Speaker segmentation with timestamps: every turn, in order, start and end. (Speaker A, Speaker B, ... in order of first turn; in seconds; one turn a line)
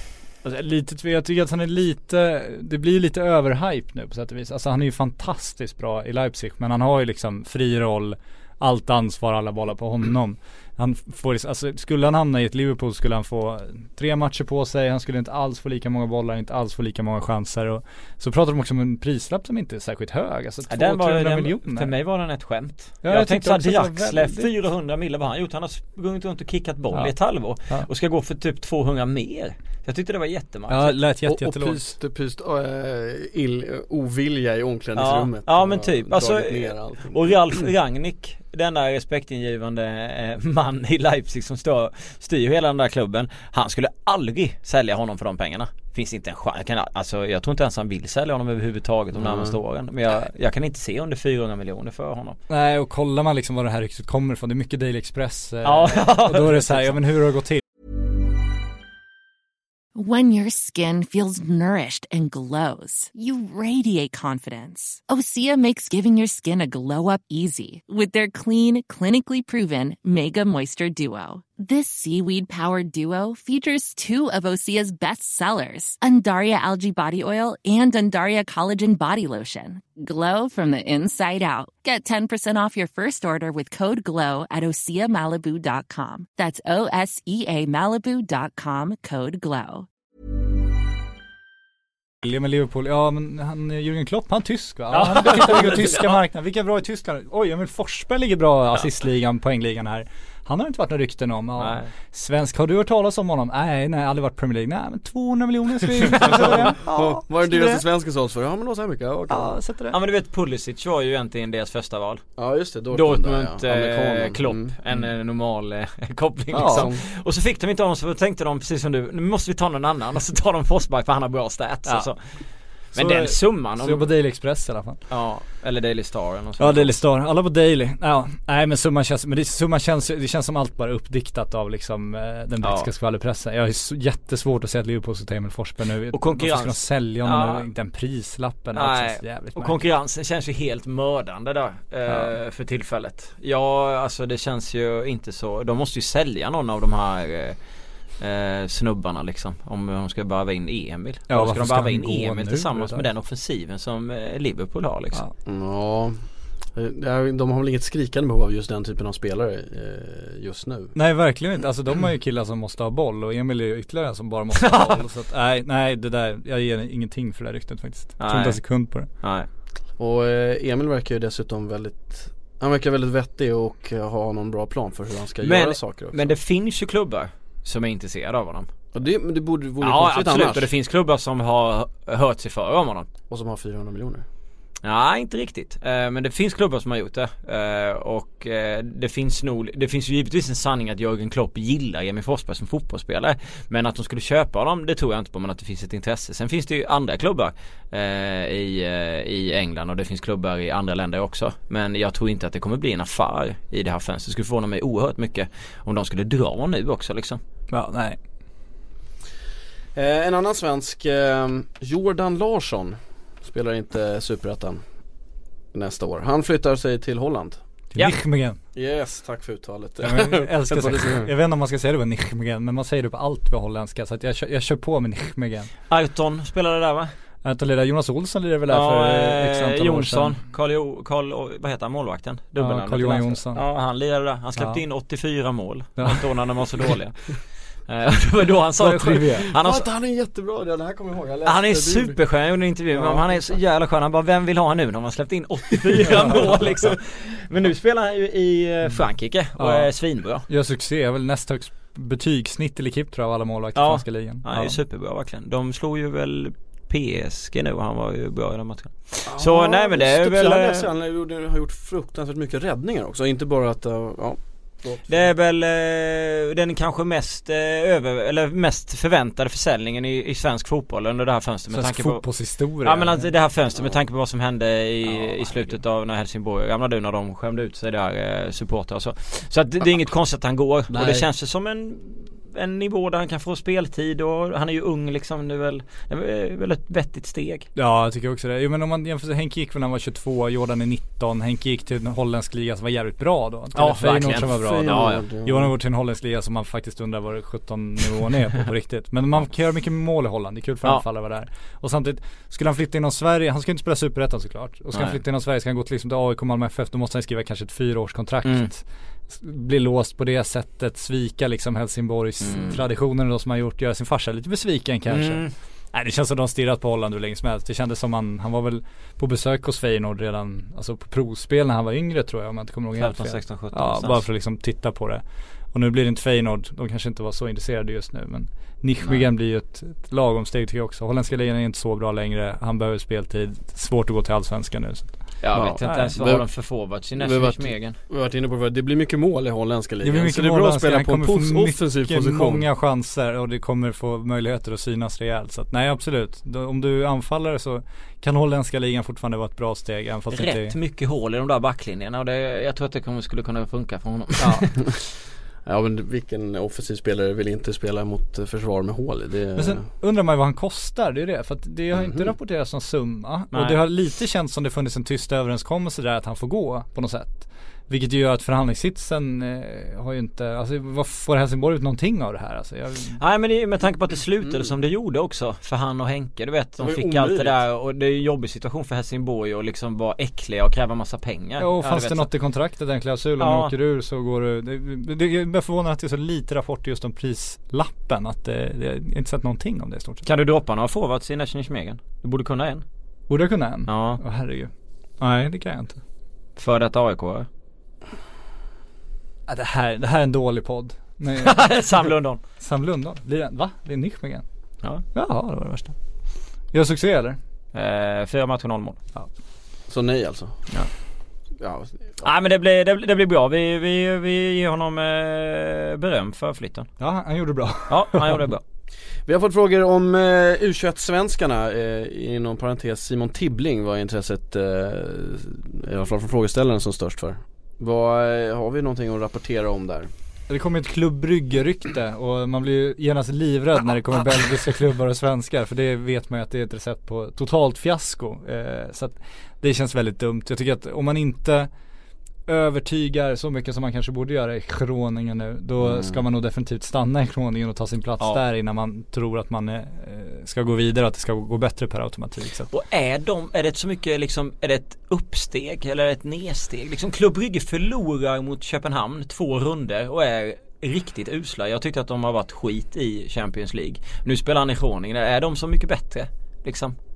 Speaker A: 0.4-21.9
Speaker B: 20.7-31.0
Speaker A: 23.0-24.5
Speaker A: 30.7-31.9
Speaker C: 31.2-37.6
Speaker B: 35.0-52.4
Speaker C: 49.2-49.6
Speaker A: 52.5-57.6
Speaker B: 55.6-56.9
Speaker D: 60.0-89.9
Speaker A: 92.2-107.8
Speaker B: 94.9-96.2
Speaker B: 101.6-101.9
Speaker B: 106.1-106.6
Speaker C: 106.2-109.6
Speaker A: 109.3-110.0
Speaker B: 109.9-112.2
Speaker C: 112.4-114.7
Speaker B: 112.9-124.1
Speaker A: 116.5-116.9
Speaker C: 116.5-117.0
Speaker A: 121.8-122.1
Speaker A: 122.9-125.0
Speaker B: 125.1-126.9
Speaker A: 126.6-139.8
Speaker B: 132.6-132.9
Speaker B: 136.1-137.7
Speaker B: 138.8-147.6
Speaker A: 142.1-142.3
Speaker B: 148.2-155.2
Speaker A: 151.3-153.1
Speaker C: 155.5-156.2
Speaker C: 156.7-160.9
Speaker A: 160.9-169.1
Speaker B: 164.6-165.0
Speaker B: 168.2-169.5
Speaker C: 170.0-176.4
Speaker B: 175.4-178.7
Speaker C: 178.9-180.7
Speaker B: 179.8-183.1
Speaker C: 183.3-184.2
Speaker B: 184.8-207.4
Speaker A: 207.7-208.2
Speaker C: 210.0-214.8
Speaker C: 215.7-217.6
Speaker A: 217.9-218.6
Speaker C: 218.8-221.3
Speaker A: 220.0-225.7
Speaker B: 225.9-227.1
Speaker A: 227.4-230.4
Speaker B: 228.7-239.9
Speaker A: 232.6-233.6
Speaker A: 234.6-234.8
Speaker A: 236.0-236.2
Speaker A: 238.8-239.5
Speaker C: 239.5-242.2
Speaker B: 241.4-250.5
Speaker C: 242.9-243.6
Speaker A: 246.1-246.6
Speaker A: 249.6-254.8
Speaker B: 253.8-260.9
Speaker C: 259.3-265.3
Speaker B: 265.1-272.3
Speaker A: 271.7-273.3
Speaker B: 272.8-287.7
Speaker A: 275.1-275.8
Speaker A: 287.8-335.2
Speaker B: 293.8-295.2
Speaker C: 294.4-295.7
Speaker B: 304.9-305.2
Speaker B: 308.4-308.7
Speaker B: 312.4-312.8
Speaker B: 315.1-315.5
Speaker B: 323.0-324.2
Speaker B: 335.4-338.0
Speaker C: 335.5-336.5
Speaker A: 335.8-336.2
Speaker C: 337.0-342.6
Speaker A: 340.0-350.8
Speaker B: 350.3-354.8
Speaker A: 354.4-354.7
Speaker C: 355.7-359.9
Speaker A: 359.6-373.2
Speaker C: 361.9-362.3
Speaker B: 363.5-363.8
Speaker B: 373.2-382.3
Speaker C: 376.8-377.6
Speaker A: 381.6-390.2
Speaker B: 383.4-383.7
Speaker B: 390.2-392.8
Speaker A: 393.3-396.0
Speaker B: 393.9-394.2
Speaker B: 396.6-397.5
Speaker A: 399.5-401.7
Speaker B: 401.4-402.4
Speaker A: 402.6-404.4
Speaker A: 405.0-406.0
Speaker A: 406.7-407.4
Speaker B: 407.7-409.0
Speaker C: 409.9-410.7
Speaker C: 411.6-412.3
Speaker B: 412.2-416.9
Speaker A: 417.0-418.4
Speaker B: 417.9-418.6
Speaker C: 419.3-430.1
Speaker A: 430.5-441.7
Speaker A: 442.5-452.7
Speaker C: 445.8-446.2
Speaker B: 452.7-467.0